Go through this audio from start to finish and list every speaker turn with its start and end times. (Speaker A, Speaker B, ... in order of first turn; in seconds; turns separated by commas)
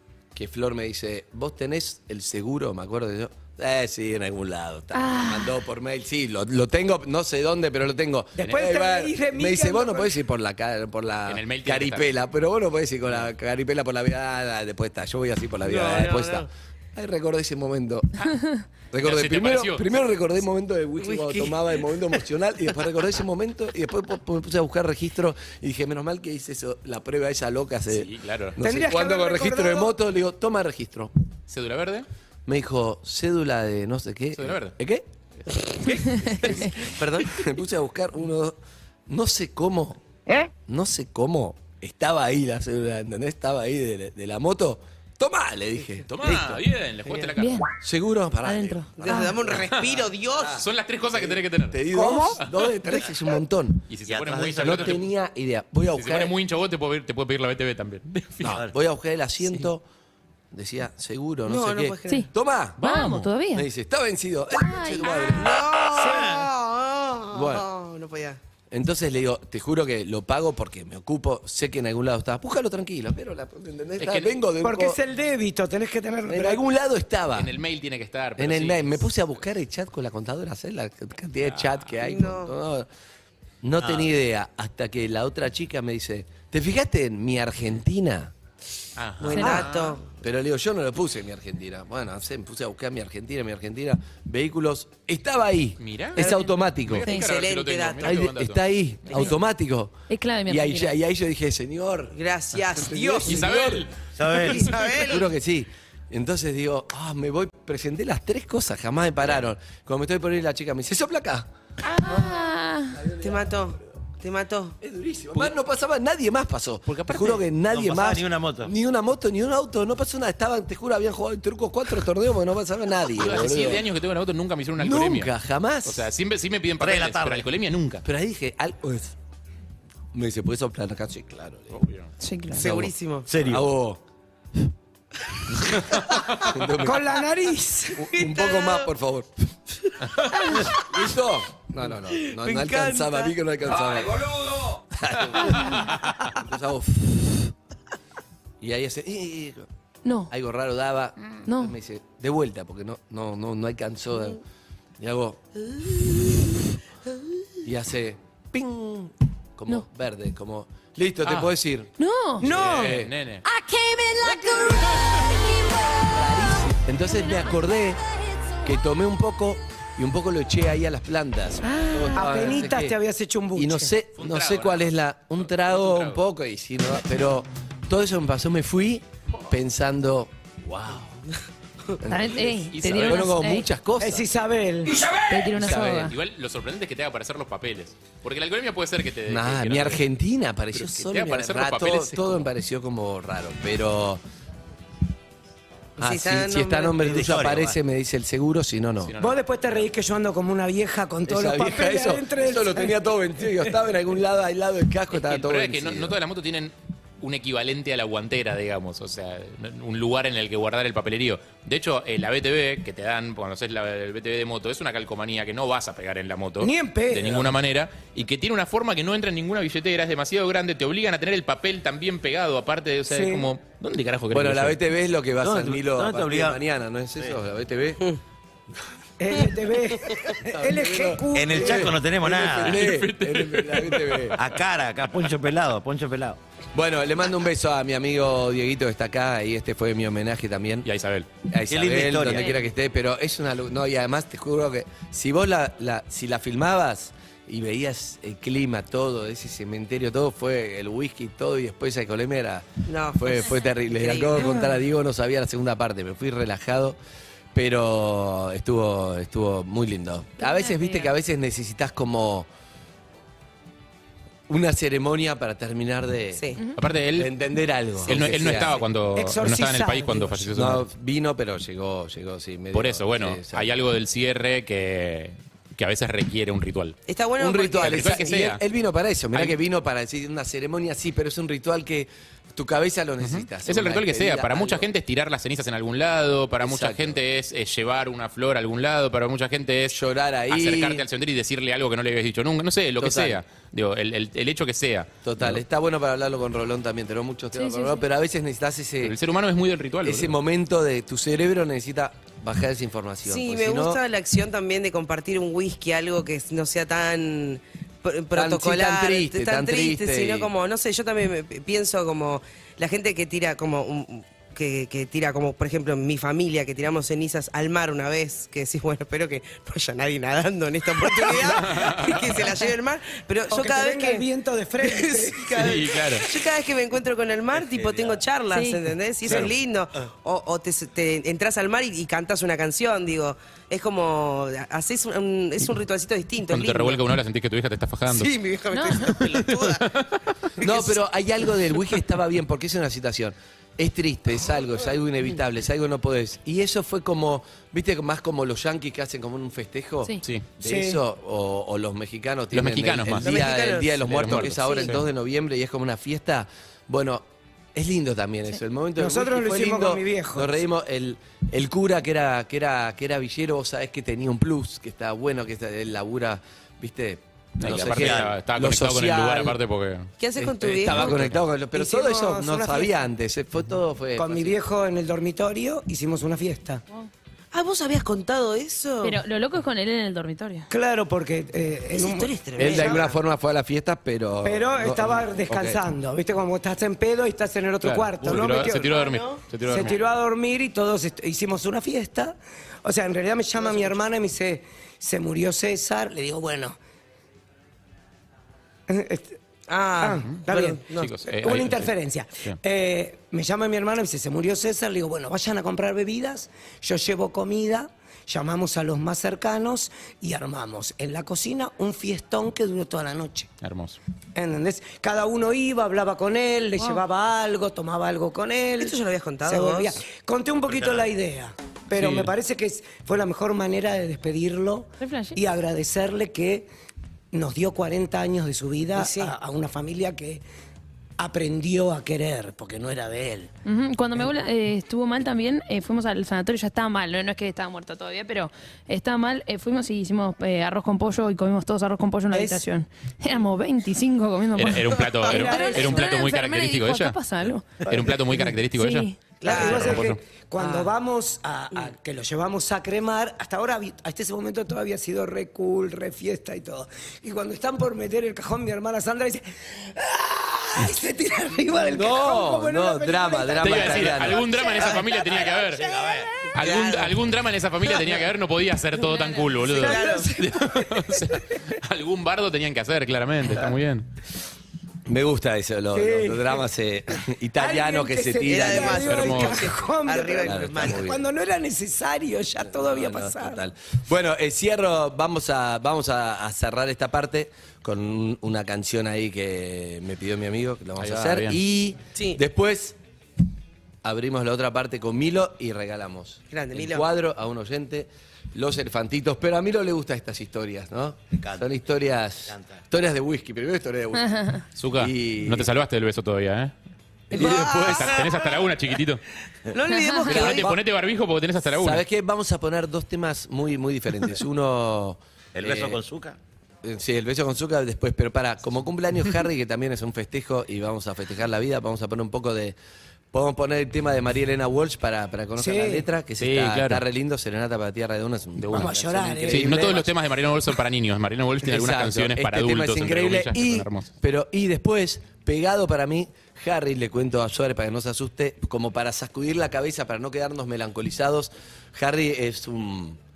Speaker A: 0.3-18.4, Speaker B: 4.9-5.6, Speaker C: 8.4-10.1, Speaker D: 8.4-8.7, Speaker D: 11.3-12.1, Speaker E: 15.6-16.5, Speaker A: 18.9-31.1, Speaker D: 19.0-20.0, Speaker E: 21.0-21.6, Speaker D: 27.9-28.6, Speaker C: 28.6-30.0, Speaker D: 31.5-32.1, Speaker A: 32.5-35.1, Speaker D: 34.4-34.8, Speaker A: 35.7-40.0, Speaker E: 35.9-37.4, Speaker A: 40.7-46.6, Speaker D: 46.1-47.6, Speaker B: 47.4-47.7, Speaker A: 47.8-49.6, Speaker B: 48.5-49.3, Speaker E: 49.0-50.6, Speaker D: 49.5-51.8, Speaker A: 50.3-53.9, Speaker C: 52.0-52.3, Speaker D: 52.4-52.7, Speaker D: 53.9-55.0, Speaker F: 54.1-55.0, Speaker A: 54.6-56.4, Speaker D: 56.0-58.6, Speaker A: 58.4-59.9, Speaker A: 60.5-62.8, Speaker E: 61.5-62.3, Speaker D: 62.8-63.3, Speaker B: 62.8-63.7, Speaker A: 63.5-65.7, Speaker B: 64.7-65.5, Speaker E: 65.3-68.4, Speaker A: 67.3-67.7, Speaker A: 68.7-75.0, Speaker D: 74.0-74.4, Speaker C: 74.6-76.6, Speaker A: 76.3-77.5, Speaker D: 77.3-79.1, Speaker A: 78.4-82.9, Speaker D: 81.5-81.9, Speaker E: 82.0-82.5, Speaker A: 83.6-88.3, Speaker F: 83.8-84.1, Speaker D: 89.0-90.0, Speaker E: 89.2-90.1, Speaker B: 89.3-89.7, Speaker A: 90.2-97.1, Speaker D: 95.8-96.3, Speaker E: 96.2-98.3, Speaker D: 96.8-98.6, Speaker A: 98.0-100.0, Speaker B: 100.1-100.9, Speaker A: 100.5-102.2, Speaker E: 102.2-103.6, Speaker A: 102.8-103.9, Speaker D: 103.2-105.1, Speaker F: 104.2-104.9, Speaker E: 104.5-105.3, Speaker A: 105.1-113.8, Speaker B: 111.8-113.0, Speaker E: 113.2-114.8, Speaker A: 114.8-123.9, Speaker D: 116.9-117.4, Speaker F: 117.7-118.7, Speaker D: 123.1-125.3, Speaker A: 124.8-126.1, Speaker D: 125.8-128.1, Speaker F: 126.8-127.5, Speaker A: 128.0-129.2, Speaker A: 130.1-131.8, Speaker D: 131.7-132.1, Speaker B: 132.2-132.7, Speaker E: 132.5-133.3, Speaker A: 132.5-134.0, Speaker F: 133.3-133.7, Speaker E: 136.1-136.5, Speaker A: 136.4-137.1, Speaker C: 136.8-138.1, Speaker A: 138.0-139.5, Speaker E: 138.0-138.9, Speaker E: 140.2-141.1, Speaker A: 140.7-147.5, Speaker E: 142.2-143.3, Speaker A: 148.6-149.7, Speaker B: 150.1-150.3, Speaker A: 150.3-154.4, Speaker B: 151.5-151.7, Speaker A: 155.0-155.4, Speaker E: 155.8-156.4, Speaker A: 157.6-163.1, Speaker D: 161.2-161.5, Speaker B: 162.0-162.4, Speaker D: 162.4-163.4, Speaker A: 166.1-168.0, Speaker A: 168.6-173.0, Speaker B: 171.7-172.3, Speaker C: 172.1-173.9, Speaker A: 173.5-181.2, Speaker D: 174.2-176.2, Speaker A: 182.0-184.3, Speaker B: 182.1-183.7, Speaker D: 182.7-183.3, Speaker C: 184.0-185.0, Speaker B: 185.1-186.1, Speaker A: 185.5-186.1, Speaker D: 185.6-190.1, Speaker A: 189.3-194.2, Speaker D: 190.7-192.5, Speaker E: 196.0-197.0, Speaker A: 196.0-199.1, Speaker F: 197.0-197.8, Speaker D: 199.0-199.9, Speaker C: 199.2-203.0, Speaker A: 201.3-206.2, Speaker D: 205.1-224.8, Speaker C: 216.6-217.4, Speaker C: 223.1-223.5, Speaker A: 224.3-228.0, Speaker F: 225.4-226.6, Speaker C: 229.2-232.0, Speaker A: 230.4-234.4, Speaker F: 231.3-232.9, Speaker D: 232.6-234.4, Speaker F: 234.4-236.4, Speaker A: 236.7-240.9, Speaker D: 240.8-241.3, Speaker A: 241.5-257.0, Speaker F: 241.7-242.6, Speaker E: 252.9-254.7, Speaker A: 257.5-262.5, Speaker B: 260.4-261.1, Speaker A: 264.5-266.6, Speaker D: 266.8-267.3, Speaker A: 267.1-268.8, Speaker E: 268.0-268.9, Speaker D: 268.1-270.9, Speaker C: 269.1-270.5, Speaker A: 270.5-273.8, Speaker D: 272.7-277.0, Speaker E: 277.1-278.4, Speaker A: 277.4-284.9, Speaker D: 277.8-278.6, Speaker D: 283.2-295.6, Speaker A: 286.6-287.2, Speaker A: 289.9-291.0, Speaker A: 293.0-293.4, Speaker A: 295.2-299.2, Speaker B: 297.5-298.0, Speaker D: 299.0-300.4, Speaker A: 300.0-304.0, Speaker E: 303.2-324.3, Speaker A: 308.3-310.5, Speaker D: 321.3-322.5, Speaker C: 323.5-325.8, Speaker E: 324.8-337.1, Speaker D: 325.6-326.3, Speaker F: 327.6-328.2, Speaker B: 328.5-328.8, Speaker D: 336.5-338.3, Speaker E: 338.1-339.9, Speaker B: 338.7-339.2, Speaker D: 339.3-340.1, Speaker E: 340.6-341.0, Speaker A: 340.6-369.6, Speaker C: 350.6-351.0, Speaker D: 352.5-353.4, Speaker E: 353.2-354.9, Speaker D: 354.1-355.0, Speaker C: 359.0-360.6, Speaker D: 367.6-370.1, Speaker F: 367.8-368.3, Speaker E: 370.2-371.3, Speaker A: 370.4-374.6, Speaker D: 370.8-371.4, Speaker C: 371.7-373.0, Speaker C: 374.1-376.8, Speaker E: 377.5-379.2, Speaker B: 379.0-380.7, Speaker C: 380.7-383.1, Speaker E: 381.9-383.2, Speaker A: 382.6-385.8, Speaker C: 384.4-389.0, Speaker D: 387.8-390.0, Speaker E: 388.4-390.0, Speaker C: 389.6-396.8, Speaker E: 393.6-394.0, Speaker C: 398.9-399.4, Speaker E: 399.7-401.1, Speaker C: 400.0-413.5, Speaker D: 400.9-401.9, Speaker D: 413.6-414.0, Speaker C: 414.4-426.7, Speaker E: 418.8-420.0, Speaker D: 422.0-422.3, Speaker B: 425.0-425.4, Speaker C: 427.3-430.4, Speaker E: 428.9-429.3, Speaker C: 431.2-433.5, Speaker B: 433.6-447.9, Speaker C: 442.3-442.6, Speaker D: 444.6-450.2, Speaker C: 445.3-446.1, Speaker C: 447.9-448.5, Speaker B: 448.7-449.5, Speaker E: 449.4-450.9, Speaker C: 449.4-464.6, Speaker A: 461.9-464.6, Speaker D: 463.6-465.8, Speaker E: 464.4-467.2, Speaker F: 465.5-466.3, Speaker D: 466.5-474.1, Speaker E: 467.9-468.2, Speaker E: 469.1-470.3, Speaker C: 469.7-470.9, Speaker A: 475.1-479.6, Speaker C: 475.9-476.6, Speaker C: 477.6-483.6, Speaker E: 478.4-481.1, Speaker D: 479.1-479.6, Speaker A: 480.4-481.2, Speaker A: 482.7-493.0, Speaker D: 491.0-491.6, Speaker A: 494.0-505.7, Speaker E: 496.5-497.1, Speaker F: 501.4-501.6, Speaker F: 502.5-502.8, Speaker B: 504.2-504.6, Speaker D: 504.8-506.7, Speaker A: 507.3-508.3, Speaker E: 507.3-508.5, Speaker D: 507.5-509.2, Speaker E: 509.7-510.7, Speaker B: 510.0-510.4, Speaker A: 510.3-510.9, Speaker D: 510.3-512.0, Speaker A: 511.8-516.0, Speaker F: 515.5-516.4, Speaker A: 516.8-522.8, Speaker A: 523.3-530.1, Speaker C: 525.6-526.1, Speaker D: 526.4-527.0, Speaker D: 528.6-534.1, Speaker C: 528.7-529.9, Speaker A: 531.6-543.2